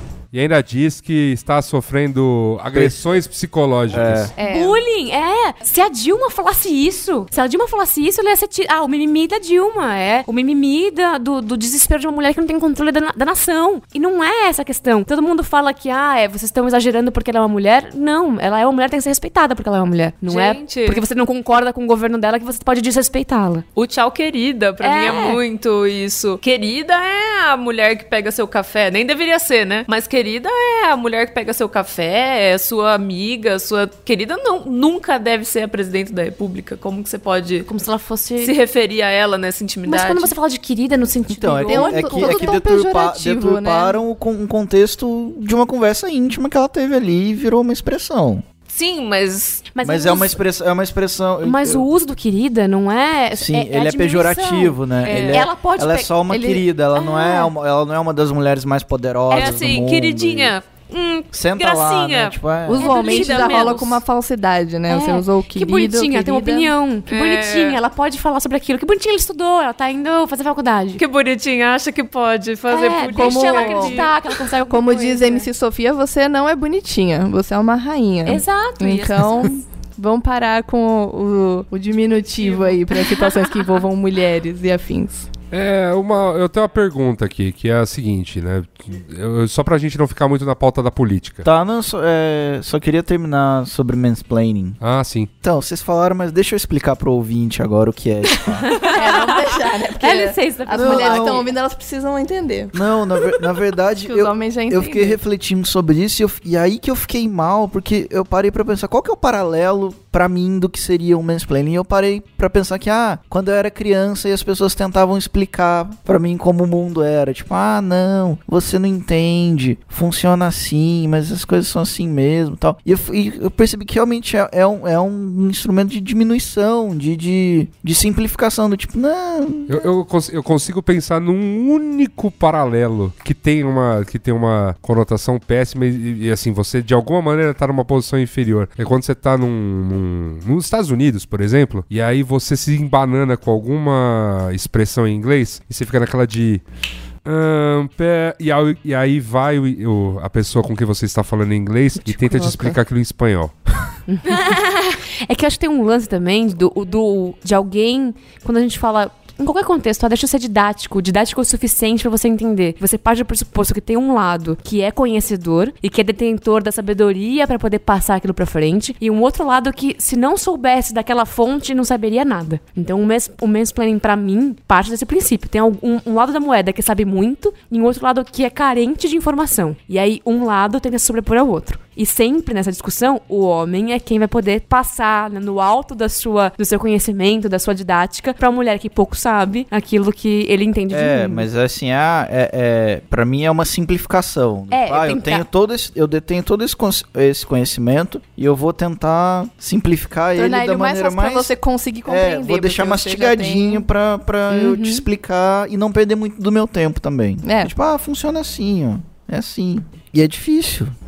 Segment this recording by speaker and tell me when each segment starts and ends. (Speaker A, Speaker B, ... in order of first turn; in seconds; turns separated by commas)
Speaker A: 0.3-4.3, Speaker B: 2.7-3.2, Speaker B: 3.9-4.3, Speaker C: 4.4-23.6, Speaker D: 20.3-21.0, Speaker D: 23.8-37.7, Speaker C: 24.8-25.4, Speaker C: 37.6-38.5, Speaker D: 38.4-40.3, Speaker C: 39.9-42.6, Speaker B: 41.3-48.4, Speaker E: 41.7-44.0, Speaker D: 48.7-49.7, Speaker C: 49.7-50.4, Speaker B: 49.8-51.9, Speaker C: 51.4-56.6, Speaker B: 53.3-60.5, Speaker D: 55.0-55.5, Speaker C: 59.3-59.6, Speaker D: 59.3-64.0, Speaker B: 61.3-62.9, Speaker E: 62.6-66.7, Speaker C: 62.9-63.8, Speaker C: 64.9-71.0, Speaker D: 67.1-67.8, Speaker D: 71.0-74.2, Speaker C: 72.7-75.5, Speaker E: 73.1-74.1, Speaker E: 74.7-85.3, Speaker C: 78.2-79.5, Speaker D: 82.4-82.7, Speaker A: 85.5-91.4, Speaker B: 91.4-94.8, Speaker A: 94.8-95.3, Speaker B: 95.4-98.6, Speaker C: 98.8-99.3, Speaker E: 98.8-105.2, Speaker C: 100.0-101.5, Speaker B: 100.8-101.4, Speaker B: 102.7-129.7, Speaker A: 129.7-146.6, Speaker A: 147.2-153.5, Speaker C: 152.0-152.8, Speaker C: 154.1-191.4, Speaker B: 190.9-201.5, Speaker C: 194.7-195.4, Speaker E: 200.3-203.8, Speaker B: 202.1-210.9, Speaker C: 204.5-205.0, Speaker E: 207.4-207.7